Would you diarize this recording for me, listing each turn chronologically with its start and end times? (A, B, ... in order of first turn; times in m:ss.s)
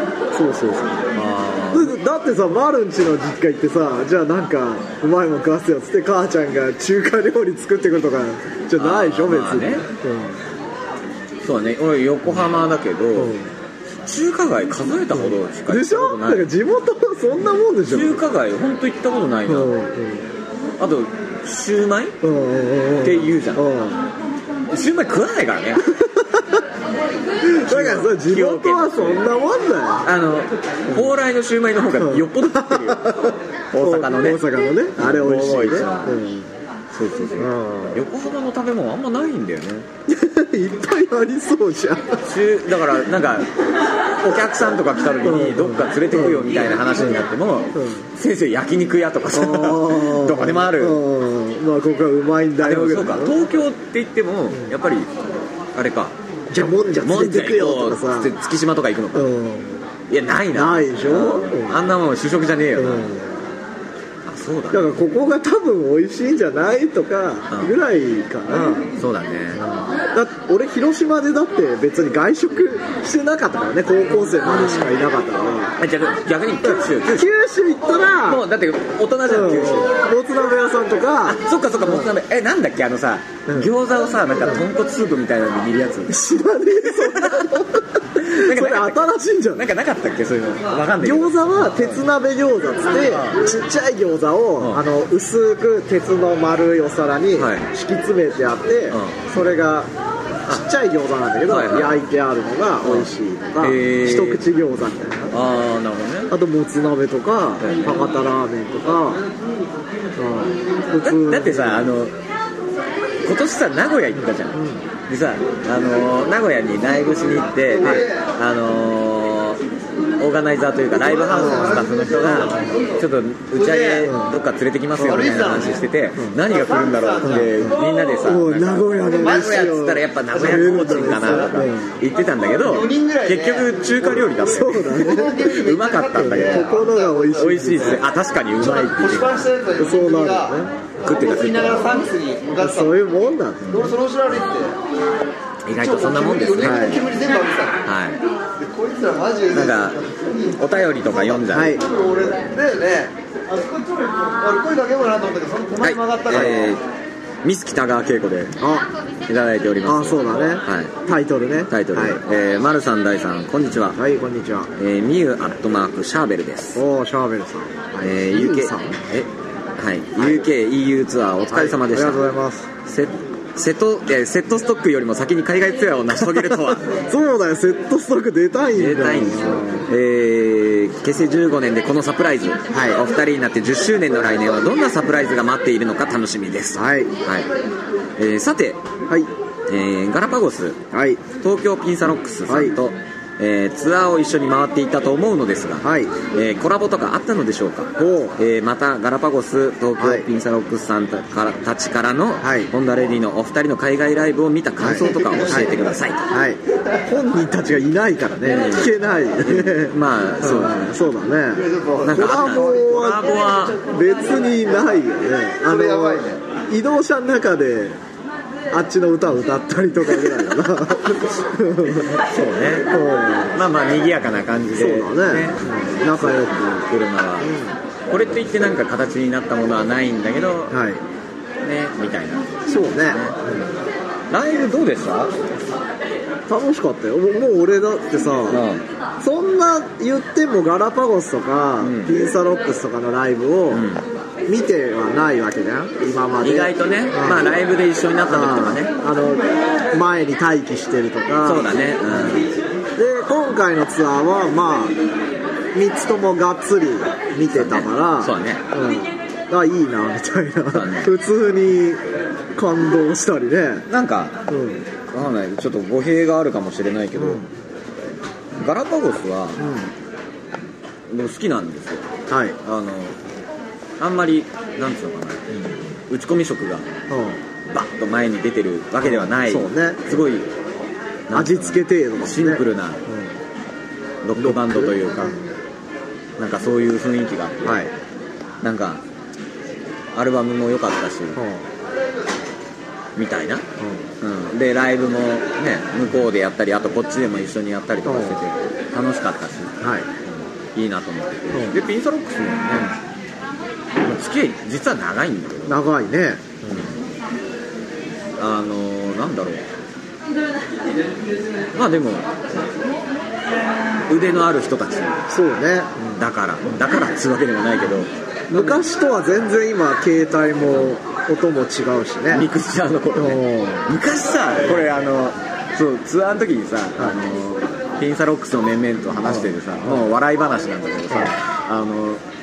0:00.3-0:01.0 A
0:01.1-0:02.0 B
0:01.7-0:10.4 A
0:08.8-0:09.8 B
0:11.4-0:13.4 B
0:13.1-0:13.5 A
0:14.0-0:16.4 B
0:15.1-0:18.2 A
0:17.9-0:19.7 B
0:19.5-0:20.3 A
0:20.8-0:22.2 B
0:22.2-0:24.0 A
0:23.0-0:23.6 B
0:24.7-0:25.9 B
0:25.9-0:26.6 A
0:27.4-0:30.1 A
0:27.6-0:29.4 B
0:30.0-0:34.4 B
0:32.0-0:36.5 A
0:35.0-0:36.1 B
0:36.9-0:39.8 B
0:37.4-0:38.0 A
0:40.1-0:42.2 A
0:42.2-0:43.5 B
0:44.2-0:51.0 B
0:45.2-0:47.0 A
0:47.7-0:48.0 A
0:49.3-0:53.3 A
0:52.6-0:55.1 B
0:55.7-0:56.1 B
0:56.5-0:58.3 A
0:56.7-0:59.3 B
0:59.1-0:59.8 A
1:00.1-1:03.0 B
1:00.5-1:01.8 A
1:02.8-1:03.3 A
1:04.2-1:04.9 B
1:04.7-1:08.9 A
1:07.5-1:07.7 B
1:09.0-1:09.6 B
1:09.6-1:15.8 A
1:14.5-1:14.8 B
1:15.8-1:17.3 B
1:16.6-1:18.4 A
1:18.2-1:19.9 B
1:19.3-1:22.1 A
1:21.2-1:26.2 B
1:26.1-1:29.7 A
1:26.8-1:27.6 B
1:28.2-1:32.0 B
1:31.0-1:39.9 A
1:33.0-1:33.4 B
1:34.6-1:34.8 B
1:37.4-1:37.7 B
1:38.9-1:39.2 B
1:40.5-1:45.3 A
1:41.5-1:42.0 B
1:42.8-1:43.1 B
1:43.6-1:44.4 B
1:45.3-1:46.3 B
1:46.3-1:49.2 A
1:47.6-1:48.0 B
1:50.2-1:51.9 A
1:51.0-1:52.1 B
1:53.2-1:59.6 B
1:54.5-1:54.8 A
1:57.8-1:58.2 C
2:00.2-2:19.5 B
2:01.0-2:01.9 C
2:01.3-2:02.6 A
2:02.4-2:02.8 C
2:03.6-2:04.1 C
2:04.0-2:04.3 A
2:05.0-2:05.6 A
2:05.0-2:05.8 C
2:06.4-2:07.5 C
2:07.2-2:11.9 A
2:09.2-2:09.6 C
2:10.3-2:11.5 C
2:12.6-2:14.2 C
2:14.0-2:15.4 A
2:14.8-2:17.4 C
2:16.2-2:18.0 A
2:18.6-2:22.9 C
2:19.8-2:20.7 A
2:21.0-2:21.9 B
2:22.6-2:23.8 A
2:23.6-2:23.9 B
2:23.7-2:24.8 C
2:25.7-2:27.0 B
2:25.8-2:27.8 C
2:26.6-2:27.0 A
2:27.8-2:28.2 B
2:28.6-2:36.8 C
2:29.5-2:30.0 B
2:30.6-2:31.8 B
2:31.5-2:31.8 A
2:35.8-2:36.8 B
2:36.3-2:36.6 A
2:37.4-2:38.6 B
2:38.6-2:38.9 A
2:39.3-2:40.9 B
2:39.8-2:42.2 A
2:41.7-2:44.0 B
2:43.9-2:44.7 A
2:44.8-2:46.8 B
2:46.7-2:49.0 A
2:48.0-2:52.2 B
2:50.2-2:50.4 A
2:51.5-2:52.7 A
2:52.8-2:57.0 B
2:56.3-2:59.9 A
2:58.8-3:07.5 B
3:02.7-3:03.0 A
3:06.7-3:07.1 A
3:08.2-3:08.8 B
3:09.7-3:26.2 B
3:10.9-3:11.2 A
3:12.5-3:12.8 A
3:15.8-3:16.1 A
3:18.0-3:18.4 A
3:20.0-3:20.2 A
3:22.4-3:22.7 A
3:24.8-3:25.7 A
3:25.1-3:25.4 C
3:26.2-3:38.0 A
3:28.4-3:30.9 B
3:31.6-3:33.0 C
3:32.0-3:33.8 B
3:35.6-3:36.4 C
3:38.7-3:42.2 A
3:41.8-3:42.9 B
3:42.9-3:43.6 A
3:43.5-3:47.5 B
3:44.7-3:46.9 A
3:47.4-3:47.7 A
3:48.1-3:50.8 B
3:50.7-3:51.0 A
3:51.6-3:53.4 B
3:52.7-3:53.7 A
3:54.3-3:55.3 B
3:56.5-3:58.6 A
3:58.5-3:58.8 B
3:59.2-4:03.8 A
4:01.8-4:02.3 B
4:03.7-4:04.0 B
4:04.5-4:07.5 A
4:06.4-4:08.9 B
4:08.3-4:15.0 A
4:11.4-4:12.5 B
4:15.7-4:22.0 A
4:17.5-4:18.6 B
4:20.7-4:21.1 B
4:22.5-4:23.9 A
4:23.9-4:24.4 B
4:24.5-4:24.8 A
4:25.1-4:27.5 B
4:27.1-4:27.5 A
4:28.6-4:29.6 B
4:29.6-4:29.9 A
4:31.1-4:32.1 B
4:32.3-4:32.6 A
4:32.6-4:33.2 B
4:34.0-4:35.5 B
4:36.1-4:36.8 B
4:37.1-4:37.4 A
4:37.7-4:40.5 B
4:39.0-4:40.2 A
4:41.3-4:43.0 B
4:41.3-4:43.4 A
4:44.2-4:45.4 B
4:44.4-4:45.0 A
4:46.4-4:47.8 B
4:47.6-4:47.9 A
4:48.6-4:49.0 B
4:50.1-4:51.4 B
4:51.3-4:51.7 A
4:53.2-4:53.6 B
4:53.8-4:54.1 A
4:54.2-5:03.0 B
4:58.0-4:58.4 A
4:59.8-5:00.1 A
5:01.5-5:01.8 A
5:04.0-5:05.8 B
5:05.7-5:06.8 A
5:06.6-5:06.9 B
5:08.4-5:09.7 B
5:11.7-5:12.3 B
5:14.1-5:15.2 B
5:15.3-5:16.2 A
5:16.2-5:18.8 B
5:18.5-5:22.5 A
5:22.3-5:32.2 B
5:23.1-5:23.9 A
5:29.2-5:30.0 A